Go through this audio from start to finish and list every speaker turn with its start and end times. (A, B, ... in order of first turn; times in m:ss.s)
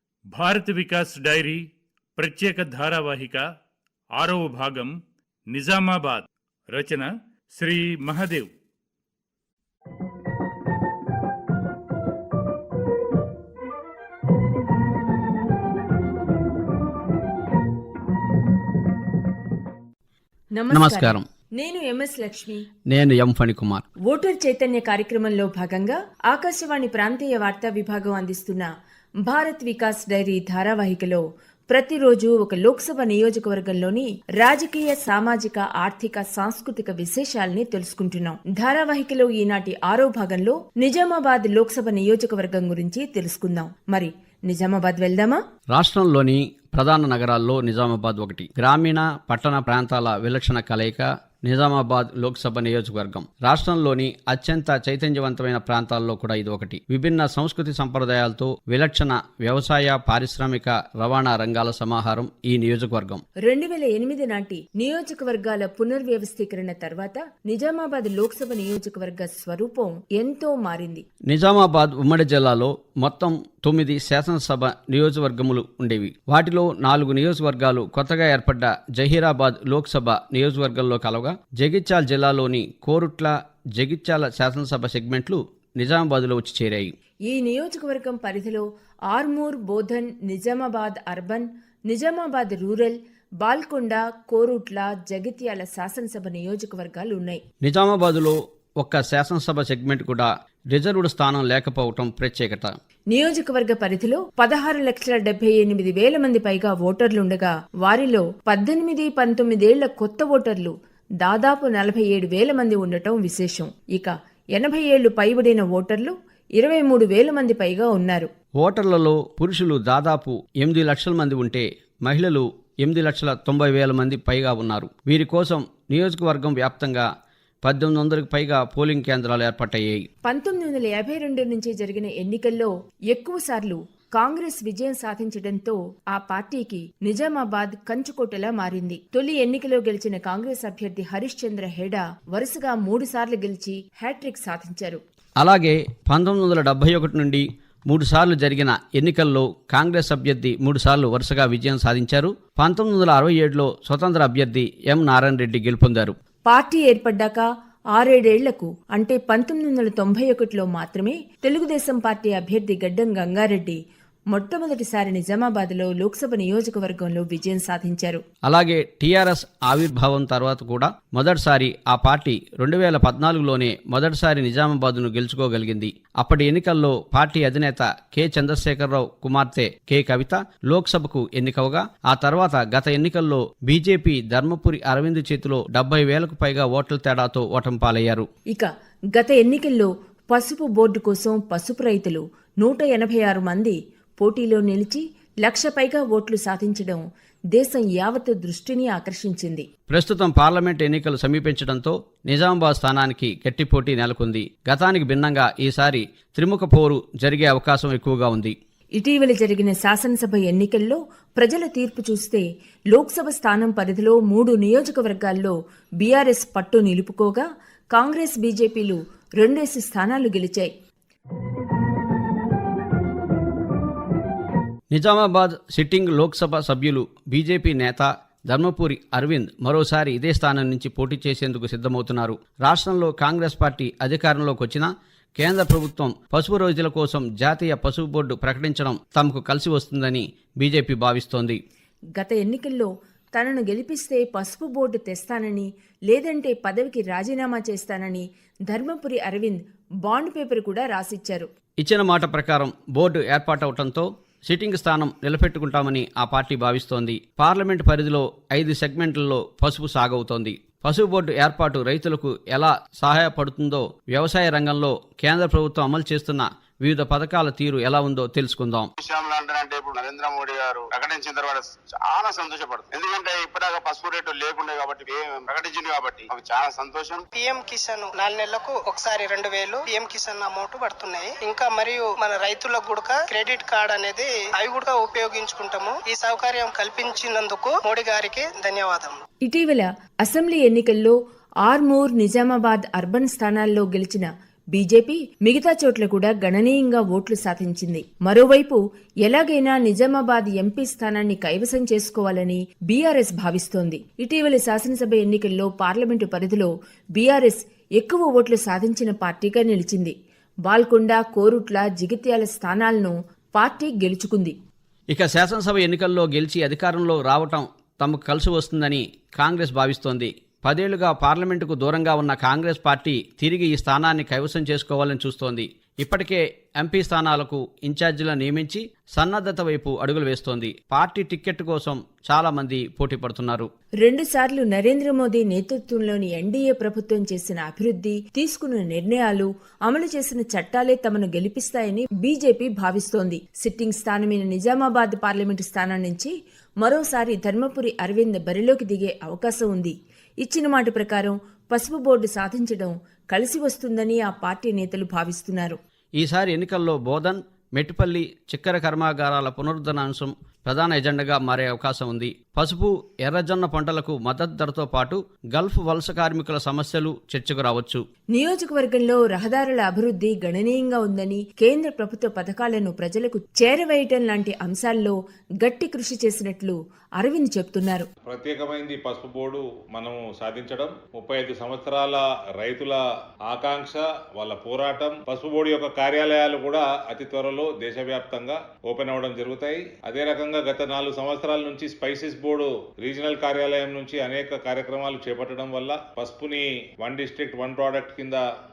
0:00.3-0:01.6 A
0:02.2-0:03.4 A
0:04.2-0:04.9 A
0:05.5-0:08.5 A
0:20.6-0:22.6 B
0:20.7-0:21.2 C
0:22.9-0:23.9 C
0:24.1-0:28.7 B
0:29.2-0:45.4 B
0:45.7-1:03.2 C
1:03.4-1:11.0 B
1:11.3-1:26.9 C
1:27.3-1:37.4 B
1:37.6-1:42.7 C
1:43.1-1:58.3 B
1:58.6-2:07.1 C
2:07.6-2:10.0 C
2:10.2-2:25.0 B
2:25.4-2:36.1 C
2:36.4-2:43.8 B
2:44.3-2:48.2 B
2:48.4-3:08.3 C
3:08.5-3:19.6 B
3:19.9-3:28.5 C
3:29.0-3:40.7 B
3:44.9-4:01.6 C
4:02.2-4:11.5 B
4:11.8-4:28.9 C
4:29.0-4:37.2 D
4:37.3-4:49.2 E
4:49.4-5:10.1 B
5:10.7-5:14.5 B
5:15.1-5:33.7 C
5:34.0-5:55.8 B
5:56.2-6:08.0 C
6:08.3-6:18.1 B
6:18.2-6:38.4 F